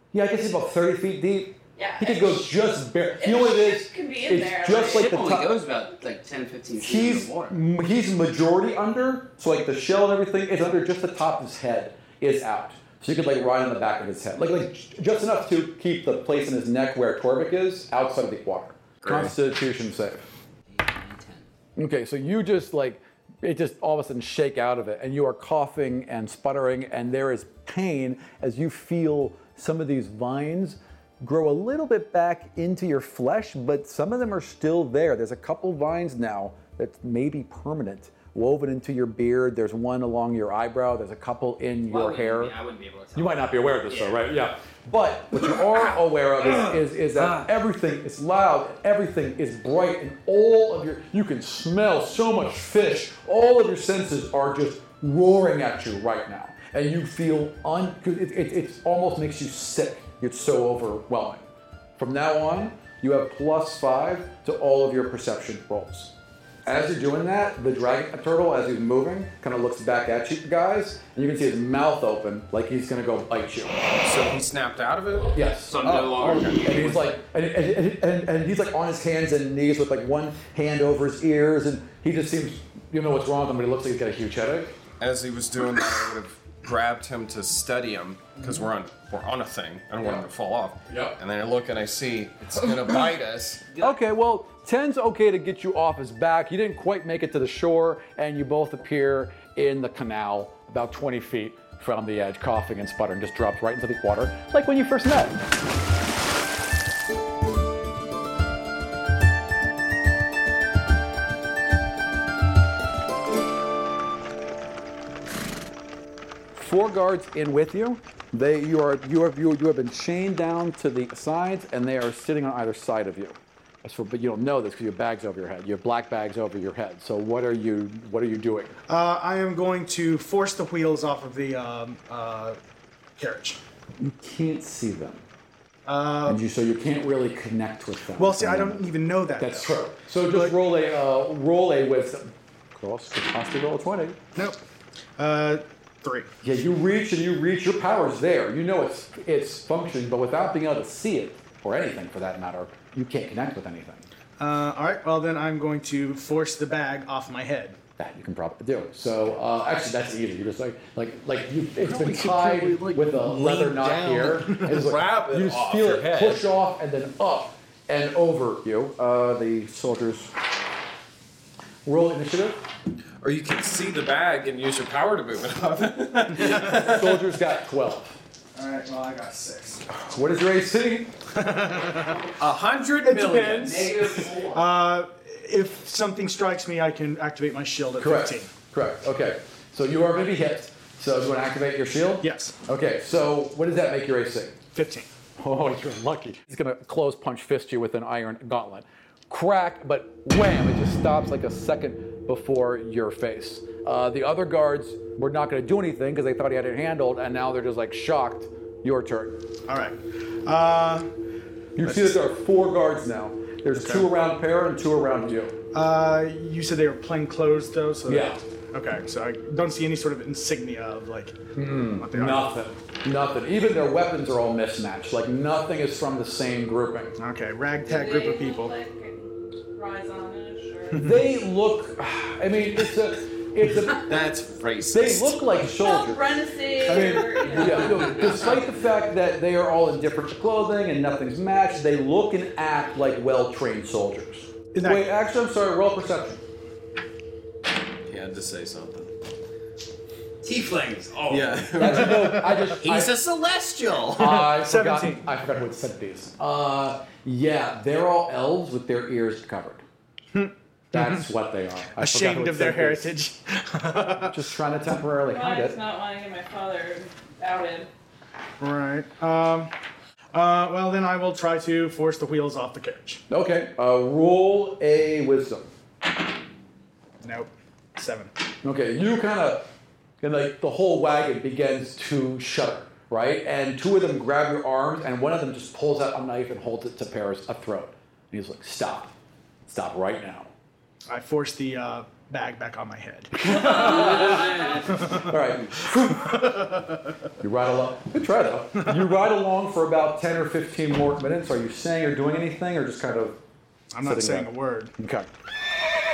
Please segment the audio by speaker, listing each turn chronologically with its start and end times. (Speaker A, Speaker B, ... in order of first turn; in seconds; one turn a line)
Speaker A: 0.1-5.6
Speaker B: 1.8-2.5
Speaker B: 3.2-5.2
Speaker C: 4.8-7.6
Speaker A: 6.8-20.3
Speaker D: 19.0-19.3
Speaker C: 20.7-21.5
Speaker A: 21.8-42.5
Speaker C: 41.9-44.2
Speaker A: 43.1-61.5
Speaker A: 62.0-66.1
Speaker A: 66.6-73.8
Speaker D: 74.0-75.3
Speaker A: 75.3-84.8
Speaker C: 75.7-77.1
Speaker D: 75.8-76.5
Speaker D: 85.0-93.6
Speaker A: 90.9-91.2
Speaker A: 93.8-105.5
Speaker A: 116.5-128.8
Speaker E: 128.9-132.6
Speaker E: 133.2-133.6
Speaker A: 134.0-135.2
Speaker E: 135.9-136.4
Speaker A: 136.3-144.2
Speaker E: 138.2-139.8
Speaker E: 140.3-140.6
Speaker E: 145.2-146.3
Speaker A: 146.4-154.1
Speaker E: 154.4-157.8
Speaker A: 158.0-170.3
Speaker D: 161.8-166.5
Speaker A: 171.8-172.6
Speaker D: 173.2-177.2
Speaker E: 176.4-176.7
Speaker A: 176.7-178.2
Speaker E: 178.6-179.8
Speaker A: 179.9-181.1
Speaker E: 181.3-182.3
Speaker D: 182.4-183.9
Speaker E: 183.0-188.5
Speaker C: 183.7-184.6
Speaker A: 188.0-194.6
Speaker E: 192.2-192.6
Speaker E: 194.7-195.1
Speaker A: 195.4-209.4
Speaker E: 209.7-211.1
Speaker A: 211.8-215.6
Speaker E: 211.8-212.2
Speaker E: 213.8-214.1
Speaker E: 215.7-221.4
Speaker A: 218.1-218.4
Speaker A: 221.6-227.2
Speaker E: 222.0-222.4
Speaker E: 227.2-228.8
Speaker B: 227.8-231.1
Speaker A: 230.9-234.3
Speaker E: 230.9-231.2
Speaker D: 233.8-235.4
Speaker A: 234.9-246.4
Speaker B: 235.6-238.4
Speaker E: 236.9-237.8
Speaker E: 244.7-245.1
Speaker D: 248.1-249.1
Speaker C: 250.4-251.9
Speaker D: 251.3-254.4
Speaker A: 251.8-253.2
Speaker A: 254.1-259.8
Speaker E: 254.2-255.3
Speaker E: 260.3-261.2
Speaker A: 260.9-263.1
Speaker E: 262.0-264.4
Speaker A: 264.3-265.8
Speaker B: 265.2-267.9
Speaker E: 268.6-269.7
Speaker E: 270.3-273.2
Speaker A: 273.3-275.7
Speaker E: 277.2-278.3
Speaker A: 278.6-279.7
Speaker A: 280.2-289.1
Speaker A: 289.6-290.5
Speaker E: 291.1-294.3
Speaker A: 293.4-296.8
Speaker E: 294.8-297.0
Speaker A: 297.4-303.4
Speaker E: 303.9-304.9
Speaker A: 304.0-305.3